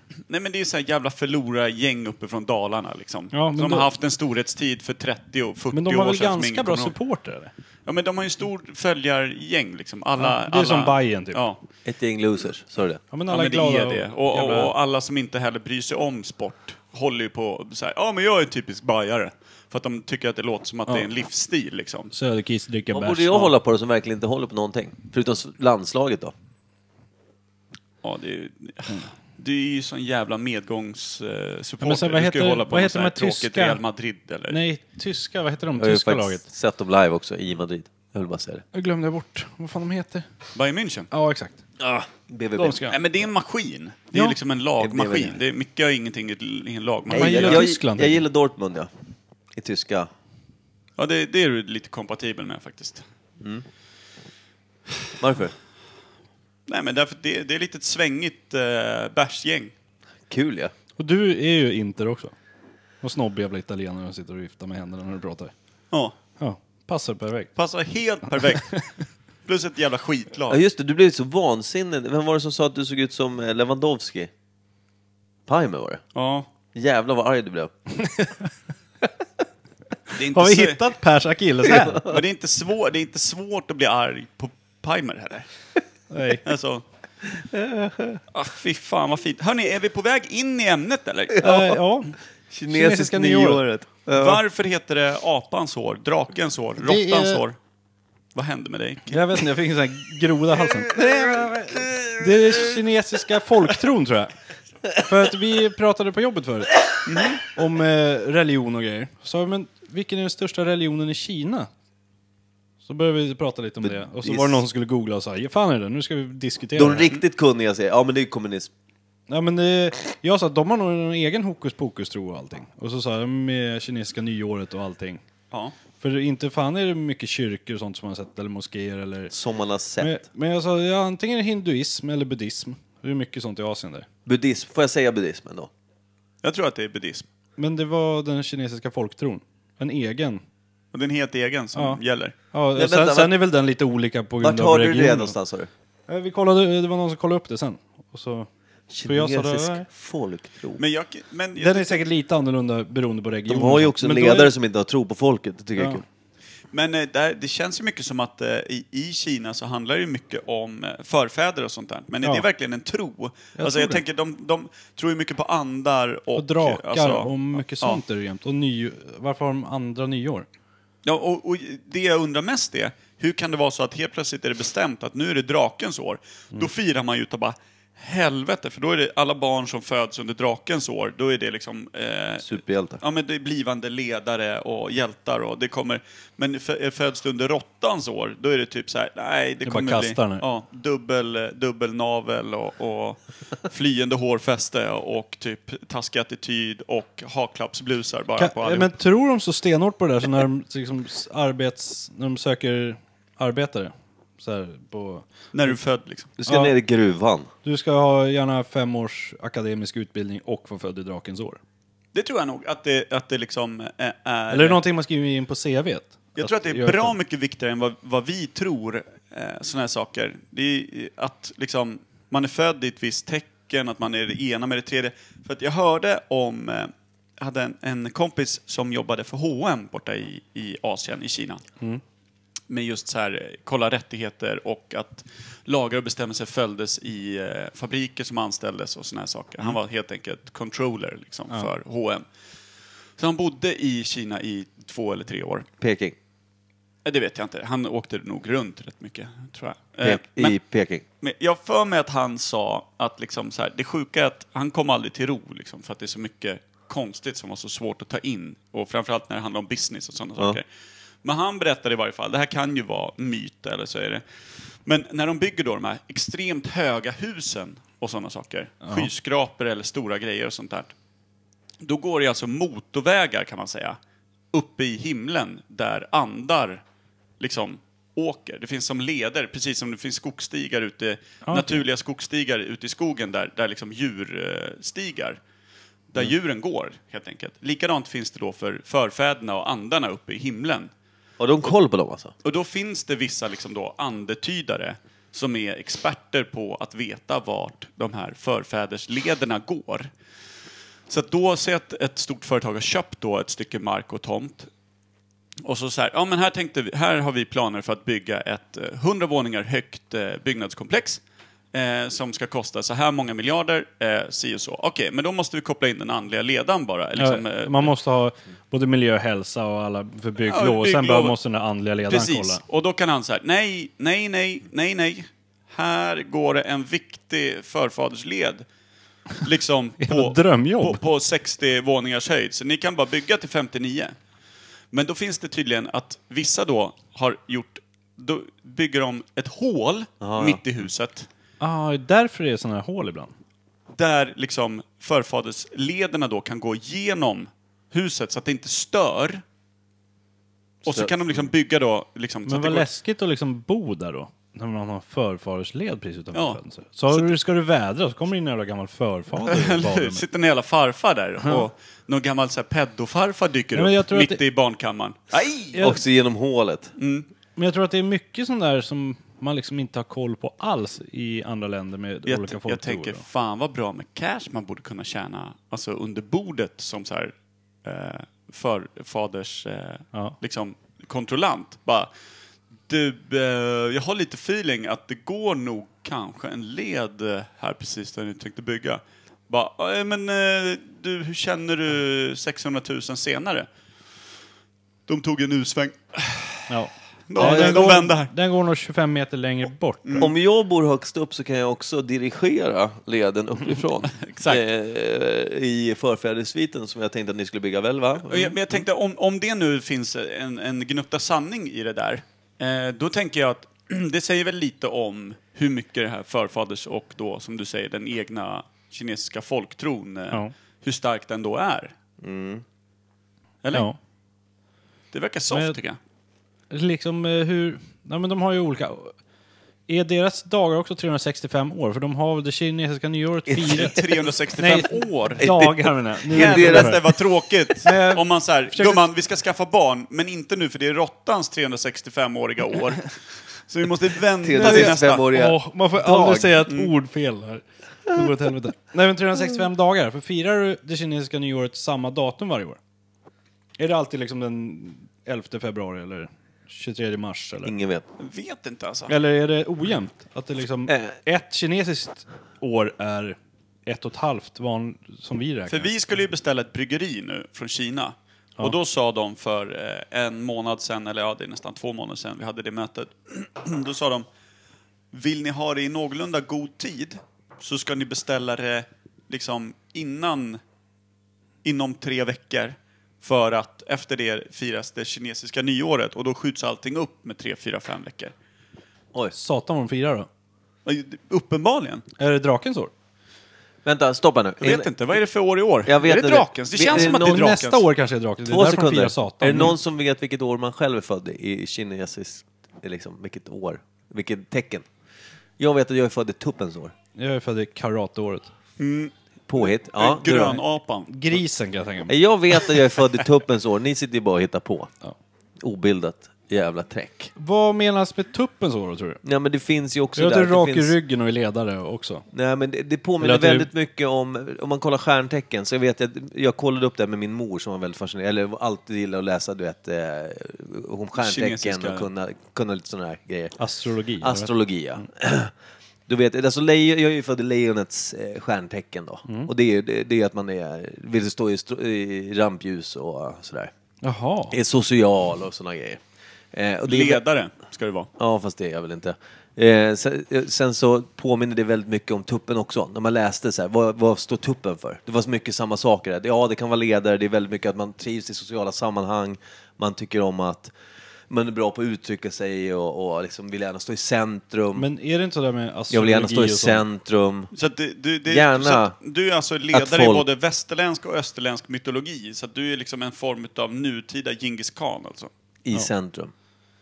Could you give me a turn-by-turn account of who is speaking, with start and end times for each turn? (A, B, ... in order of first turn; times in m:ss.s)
0:00.3-0:06.9 A
0:03.3-0:03.9 B
0:05.7-0:07.5 B
0:07.8-0:11.6 A
0:10.2-0:11.4 B
0:11.8-0:13.0 C
0:13.1-0:14.7 B
0:13.3-0:22.1 A
0:22.1-0:23.5 B
0:22.9-0:26.3 C
0:28.0-0:34.6 A
0:31.8-0:33.8 B
0:34.5-0:36.4 B
0:35.8-0:38.6 C
0:38.7-0:40.2 B
0:40.6-0:41.1 A
0:41.1-0:41.6 B
0:41.8-0:42.9 C
0:42.6-0:43.0 B
0:42.9-0:47.7 A
0:44.8-0:45.4 C
0:47.1-0:48.9 C
0:47.1-0:48.2 B
0:49.5-0:50.1 C
0:51.0-0:53.0 A
0:55.2-0:55.5 C
0:56.7-0:59.7 A
1:00.3-1:00.7 C
1:01.0-1:02.3 B
1:03.0-1:05.5 B
1:06.4-1:07.5 B
1:07.6-1:08.9 A
1:09.4-1:10.6 A
1:10.5-1:14.3 C
1:15.5-1:16.0 C
1:16.1-1:16.5 A
1:16.7-1:17.7 C
1:18.0-1:18.4 B
1:20.1-1:20.8 A
1:20.3-1:22.0 B
1:21.7-1:22.2 C
1:22.0-1:25.5 A
1:26.1-1:26.4 B
1:26.4-1:26.8 A
1:27.3-1:28.2 C
1:28.3-1:31.5 A
1:31.4-1:31.7 C
1:31.4-1:32.1 B
1:32.5-1:34.4 C
1:32.7-1:33.6 B
1:34.1-1:37.6 A
1:36.8-1:37.4 B
1:38.3-1:39.4 A
1:39.1-1:44.3 B
1:40.8-1:42.6 C
1:45.0-1:46.8 B
1:47.0-1:47.4 A
1:47.4-1:51.7 B
1:52.8-1:57.1 B
1:53.8-1:54.6 C
1:56.8-1:58.7 C
1:59.3-2:05.2 B
2:06.0-2:09.3 B
2:09.3-2:10.2 C
2:10.0-2:14.0 B
2:14.2-2:15.7 C
2:16.4-2:17.2 A
2:17.6-2:20.4 B
2:20.9-2:22.3 A
2:21.7-2:22.0 B
2:22.5-2:25.3 B
2:22.7-2:23.4 C
2:24.4-2:25.7 C
2:26.1-2:28.5 B
2:28.9-2:30.8 C
2:29.0-2:29.9 B
2:30.8-2:32.0 A
2:31.6-2:34.5 B
2:33.5-2:36.0 C
2:35.8-2:36.0 B
2:36.7-2:48.0 A
2:43.6-2:44.0 B
2:46.3-2:50.5 B
2:51.0-3:18.9 A
3:02.4-3:03.0 C
3:09.6-3:10.4 B
3:18.4-3:25.7 B
3:25.5-3:26.3 A
3:26.4-3:27.5 C
3:26.5-3:26.7 B
3:27.6-3:31.6 B
3:32.1-3:34.8 A
3:34.5-3:37.1 B
3:36.4-3:51.6 A
3:52.7-4:02.2 A
4:03.2-4:05.6 A
4:05.8-4:06.2 C
4:07.0-4:10.6 A
4:10.0-4:11.0 C
4:11.2-4:20.6 A
4:21.2-4:24.2 A
4:24.8-4:30.9 A
4:28.8-4:29.1 B
4:31.8-4:34.0 A
4:34.5-4:36.8 A
4:37.4-4:45.4 A
4:41.4-4:41.8 B
4:46.1-4:50.9 A
4:51.4-4:52.3 C
4:52.4-5:00.1 A
5:01.1-5:04.7 A
5:05.6-5:11.2 A
5:11.7-5:17.9 A
5:17.2-5:22.6 B
5:20.4-5:21.4 A
5:22.1-5:28.6 A
5:29.4-5:34.1 A
5:30.0-5:31.0 B
5:34.9-5:41.3 A
5:40.2-5:40.6 C
5:41.6-5:43.3 B
5:43.9-5:49.4 A
5:50.8-5:51.5 C
5:50.8-5:52.9 A
5:52.4-6:00.2 B
5:56.3-5:57.3 A
5:59.4-6:05.8 A
6:03.7-6:04.4 B
6:05.7-6:06.0 B
6:05.8-6:06.9 C
6:07.0-6:07.2 A
6:07.6-6:13.2 B
6:12.2-6:17.3 A
6:17.8-6:22.1 A
6:22.9-6:33.7 A
6:35.1-6:36.7 A
6:36.7-6:40.2 B
6:37.3-6:38.3 A
6:37.4-6:37.9 C
6:40.0-6:40.3 A
6:40.2-6:48.8 C
6:44.1-6:44.6 A
6:48.2-7:01.9 A
7:02.2-7:02.6 C
7:03.6-7:03.9 A
7:05.1-7:06.0 A
7:05.5-7:05.8 B
7:06.7-7:09.1 B
7:09.9-7:14.0 B
7:13.5-7:14.1 C
7:13.7-7:15.6 A
7:14.6-7:17.0 B
7:15.4-7:17.7 C
7:16.3-7:25.3 A
7:17.8-7:19.1 B
7:24.4-7:26.6 C
7:24.6-7:32.8 B
7:33.8-7:37.7 B
7:37.6-7:38.1 C
7:38.2-7:39.2 A
7:39.1-7:45.9 B
7:40.9-7:41.1 C
7:45.7-7:54.2 A
7:55.1-8:00.6 A
8:01.6-8:08.3 A
8:09.3-8:10.3 B
8:10.8-8:12.0 A
8:12.2-8:12.9 B
8:13.8-8:14.9 C
8:14.6-8:17.8 A
8:15.8-8:17.5 C
8:16.9-8:19.8 B
8:18.4-8:24.8 C
8:25.6-8:26.9 C
8:27.2-8:28.5 B
8:28.8-8:31.4 A
8:29.5-8:30.6 C
8:31.1-8:32.2 B
8:32.1-8:34.9 C
8:35.6-8:37.3 C
8:37.4-8:39.2 B
8:39.2-8:40.9 C
8:40.2-8:42.2 B
8:42.3-8:53.6 C
8:43.2-8:43.7 B
8:51.2-8:52.1 A
8:53.6-8:54.5 B
8:54.2-8:55.5 C
8:56.1-9:03.7 C
9:04.0-9:04.6 B
9:04.5-9:06.0 C
9:06.5-9:07.2 C
9:06.8-9:08.1 A
9:08.2-9:20.7 C
9:21.3-9:24.9 C
9:24.7-9:26.8 B
9:25.9-9:27.5 C
9:27.5-9:35.3 A
9:28.3-9:28.9 C
9:29.7-9:30.2 C
9:35.6-9:36.3 C